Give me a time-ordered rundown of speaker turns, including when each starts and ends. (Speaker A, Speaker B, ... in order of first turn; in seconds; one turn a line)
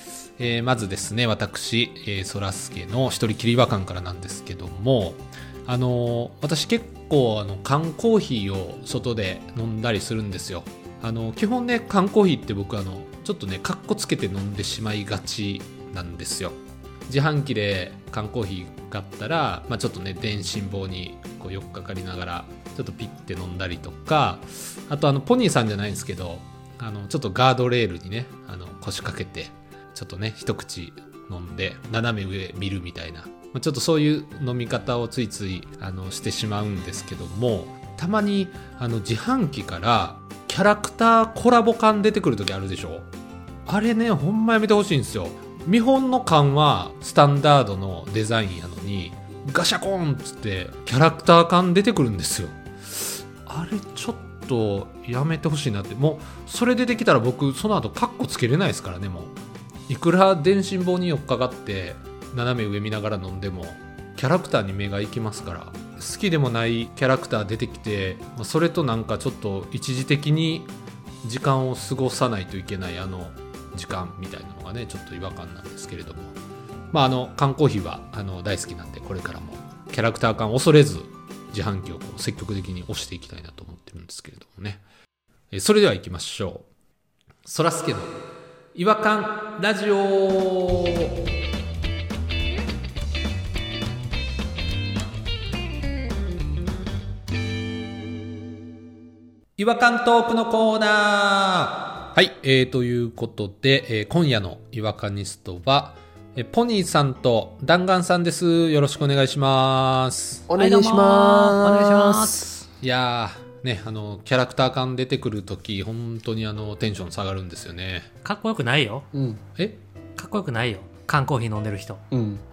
Speaker A: 0.4-43.1
Speaker A: 43.7-59.3
Speaker A: 59.9-70.7
Speaker A: 71.2-76.3
Speaker A: 76.9-84.8
Speaker A: 85.5-86.7
Speaker A: 87.4-88.1
Speaker A: 88.7-91.1
Speaker A: 99.6-110.5
Speaker B: 110.5-112.5
Speaker C: 110.6-112.7
Speaker A: 112.8-118.1
Speaker C: 118.2-119.0
Speaker B: 119.1-119.4
Speaker C: 120.2-122.0
Speaker B: 122.1-122.4